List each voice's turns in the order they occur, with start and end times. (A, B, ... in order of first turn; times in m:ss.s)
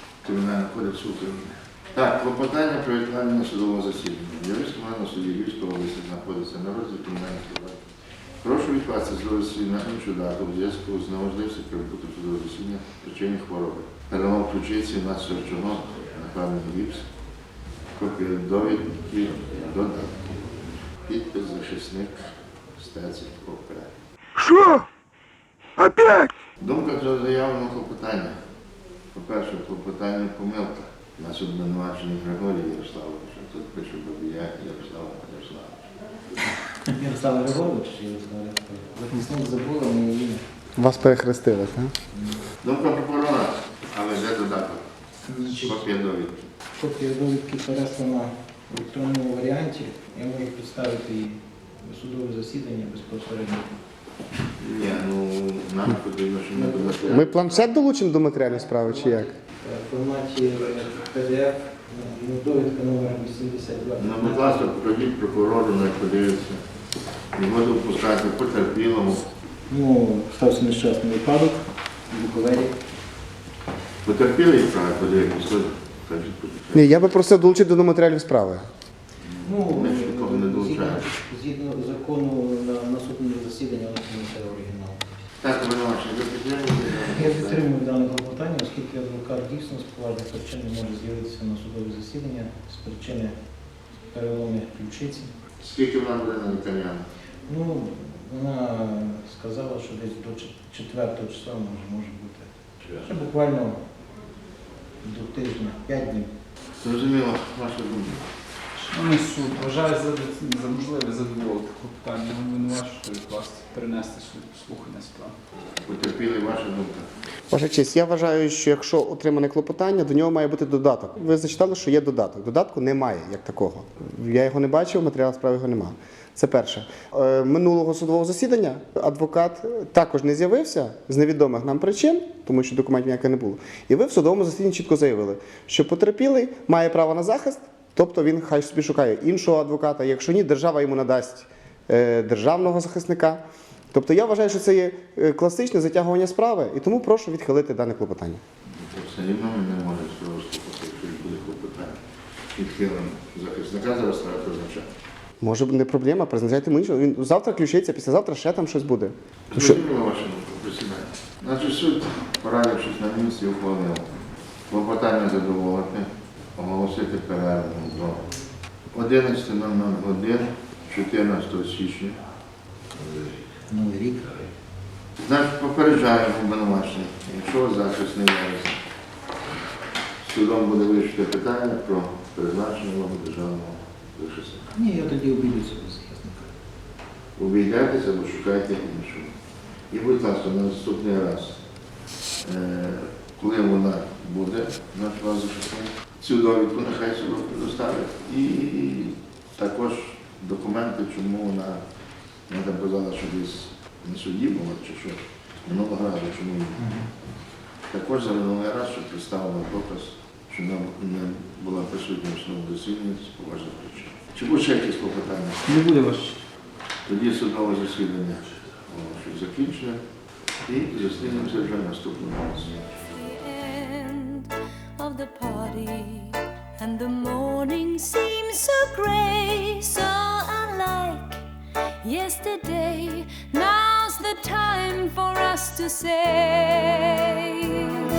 0:00.2-0:07.8 A
0:08.4-0:17.1 A
0:17.9-0:23.9 A
0:26.6-0:28.4 A
0:29.1-0:35.9 A
0:36.8-0:40.4 B
0:40.8-0:41.9 C
0:42.1-0:42.4 B
0:42.6-0:44.9 A
0:45.3-0:45.9 B
0:45.5-0:46.5 A
0:46.8-0:53.7 B
0:54.6-0:57.5 A
0:56.5-0:57.2 B
0:57.1-0:59.3 C
0:58.4-1:04.7 B
1:04.0-1:06.6 A
1:07.3-1:09.3 A
1:09.7-1:12.8 B
1:14.0-1:17.1 A
1:16.7-1:18.7 C
1:19.2-1:21.1 A
1:19.4-1:25.0 B
1:25.4-1:27.6 A
1:27.0-1:33.4 B
1:34.1-1:35.3 B
1:35.6-1:37.0 A
1:37.5-1:43.8 B
1:45.0-1:46.3 B
1:46.8-1:48.2 A
1:48.8-1:55.4 D
1:55.8-1:57.1 A
1:57.5-2:28.4 C
2:28.7-2:32.0 A
2:32.6-2:34.9 A
2:35.4-2:39.8 C
2:39.5-2:44.1 A
2:44.7-2:48.2 A
2:48.9-2:52.2 A
2:53.7-2:54.4 B
2:55.2-2:58.8 A
3:00.2-3:04.7 A
3:04.7-3:06.5 B
3:07.4-3:09.3 A
3:09.9-3:11.6 A
3:12.4-3:21.8 A
3:22.5-3:26.9 A
3:26.8-3:27.1 B
3:27.9-3:35.7 A
3:35.7-3:36.4 D
3:37.0-3:40.0 A
3:40.6-3:42.8 A
3:43.2-3:44.5 E
3:45.0-3:51.3 E
3:52.0-3:57.1 E